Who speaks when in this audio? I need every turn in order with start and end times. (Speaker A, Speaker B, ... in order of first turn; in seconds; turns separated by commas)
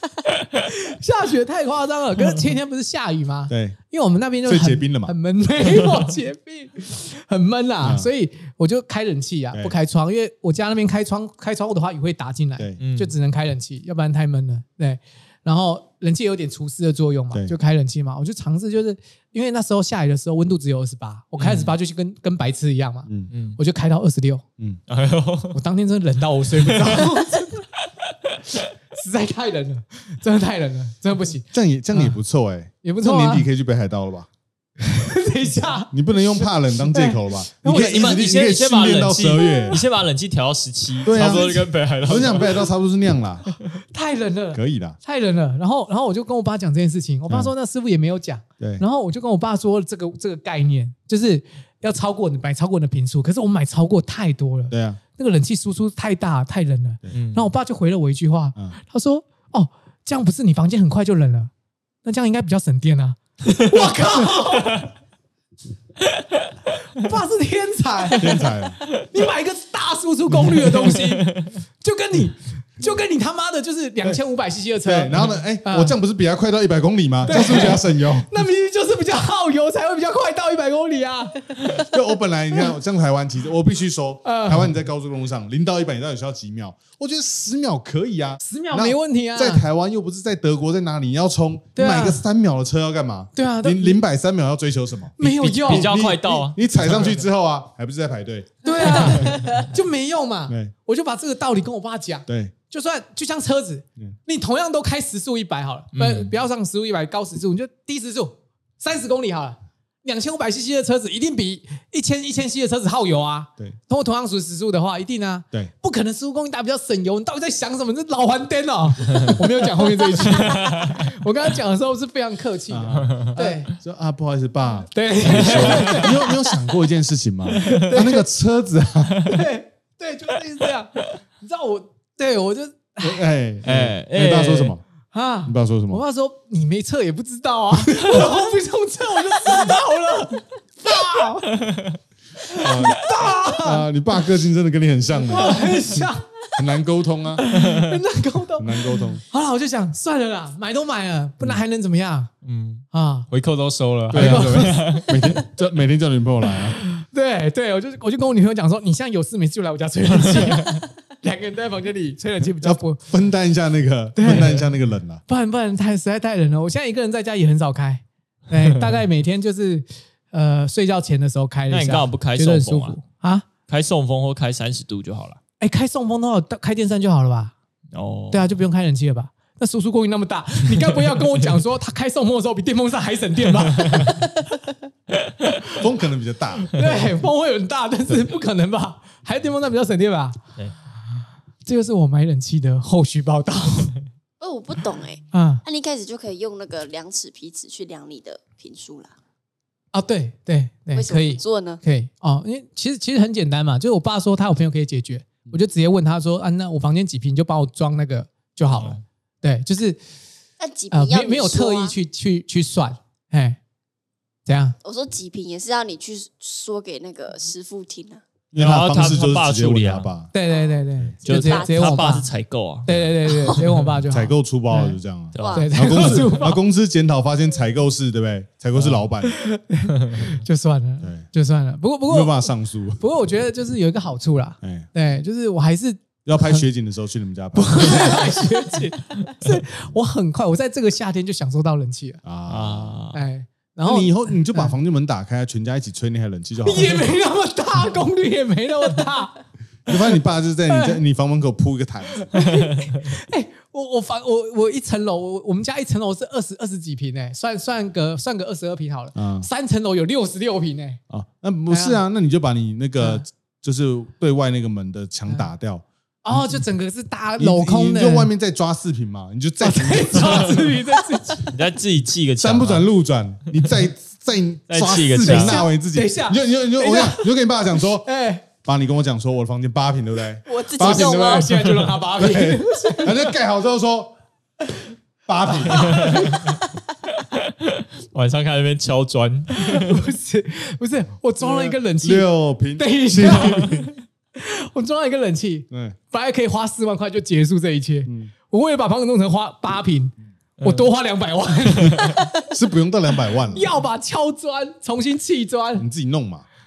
Speaker A: 0.6-24.4, Speaker B: 3.5-3.8, Speaker B: 4.5-5.1, Speaker B: 7.8-8.1, Speaker C: 12.8-13.1, Speaker C: 21.4-21.8, Speaker C: 23.3-23.6, Speaker C: 24.9-25.6, Speaker A: 25.5-27.6, Speaker C: 26.6-27.1, Speaker A: 28.9-32.1, Speaker B: 31.5-34.3, Speaker A: 32.8-33.5, Speaker A: 34.8-38.2, Speaker B: 35.9-39.8, Speaker C: 37.7-42.7, Speaker A: 39.5-39.8, Speaker B: 41.0-43.5, Speaker A: 41.1-41.6, Speaker A: 43.9-61.5, Speaker B: 44.5-45.0, Speaker B: 54.7-55.0, Speaker C: 57.1-57.5, Speaker A: 62.0-64.9, Speaker A: 67.0-68.4, Speaker B: 68.2-68.8, Speaker A: 69.1-76.0, Speaker C: 70.6-71.5, Speaker B: 74.8-78.3, Speaker A: 77.2-81.8, Speaker B: 81.8-99.4, Speaker A: 84.2-84.7, Speaker A: 88.4-89.7, Speaker A: 91.8-92.2, Speaker A: 93.3-94.0, Speaker A: 95.2-95.9, Speaker C: 95.2-96.6, Speaker A: 98.6-123.8, Speaker B: 100.5-100.7, Speaker B: 102.3-102.5, Speaker C: 105.9-106.3, Speaker C: 120.3-120.9, Speaker B: 122.7-129.4, Speaker A: 124.9-126.3, Speaker C: 125.4-126.0, Speaker A: 127.6-128.2, Speaker A: 129.3-133.2, Speaker B: 133.0-134.8, Speaker C: 133.6-134.7, Speaker A: 135.1-141.6, Speaker B: 135.5-136.0, Speaker B: 137.9-138.2, Speaker A: 142.5-143.8, Speaker B: 142.5-146.0, Speaker A: 145.3-146.3, Speaker B: 146.6-147.5, Speaker A: 147.4-152.3, Speaker B: 148.6-149.2, Speaker C: 152.4-155.1, Speaker A: 152.9-153.3, Speaker B: 154.1-156.8, Speaker A: 154.1-155.4, Speaker A: 156.8-163.1, Speaker C: 160.4-160.7, Speaker B: 162.6-165.2, Speaker A: 164.2-164.5, Speaker A: 165.3-173.5, Speaker C: 171.7-173.0, Speaker C: 173.7-175.4, Speaker A: 175.6-177.5, Speaker C: 177.9-178.5, Speaker A: 178.3-184.3, Speaker B: 185.7-186.7, Speaker A: 186.7-190.4, Speaker A: 191.7-193.9, Speaker D: 194.4-199.1, Speaker A: 195.3-195.6, Speaker A: 199.9-210.0, Speaker D: 200.9-201.8, Speaker C: 208.7-209.0, Speaker D: 210.6-212.0, Speaker A: 210.9-213.6, Speaker A: 214.5-214.8, Speaker D: 214.8-218.2, Speaker B: 218.5-220.3, Speaker C: 218.6-220.1, Speaker A: 220.3-222.3, Speaker D: 221.3-222.2, Speaker C: 221.3-222.9, Speaker A: 222.8-225.0, Speaker B: 222.9-223.2, Speaker B: 224.1-229.4, Speaker C: 225.3-226.3, Speaker D: 225.4-225.7, Speaker A: 225.5-226.6, Speaker A: 229.2-236.7, Speaker B: 232.1-233.0, Speaker B: 234.6-234.9, Speaker B: 236.2-238.5, Speaker A: 237.6-242.2, Speaker B: 242.2-243.0, Speaker C: 242.5-243.2, Speaker A: 243.1-244.7, Speaker B: 243.8-247.1, Speaker A: 246.6-249.4, Speaker B: 249.9-252.4, Speaker A: 250.7-251.0, Speaker A: 252.3-261.0, Speaker B: 259.1-259.5, Speaker B: 261.1-265.8, Speaker A: 261.7-262.0, Speaker A: 266.2-268.3, Speaker B: 267.4-270.8, Speaker A: 269.6-271.6, Speaker C: 271.5-272.9, Speaker B: 272.4-278.1, Speaker C: 274.7-275.6, Speaker A: 275.2-278.4, Speaker B: 278.6-281.6, Speaker D: 280.5-281.5, Speaker A: 280.8-283.4, Speaker B: 282.2-284.2, Speaker B: 285.3-286.2, Speaker A: 285.5-286.5, Speaker C: 285.8-286.5, Speaker C: 287.4-290.0, Speaker A: 289.6-302.3, Speaker B: 291.4-293.9, Speaker B: 295.7-296.0, Speaker B: 298.1-298.3, Speaker C: 300.6-300.9, Speaker C: 301.8-302.1, Speaker B: 302.5-303.7, Speaker A: 303.5-305.9, Speaker B: 305.8-306.5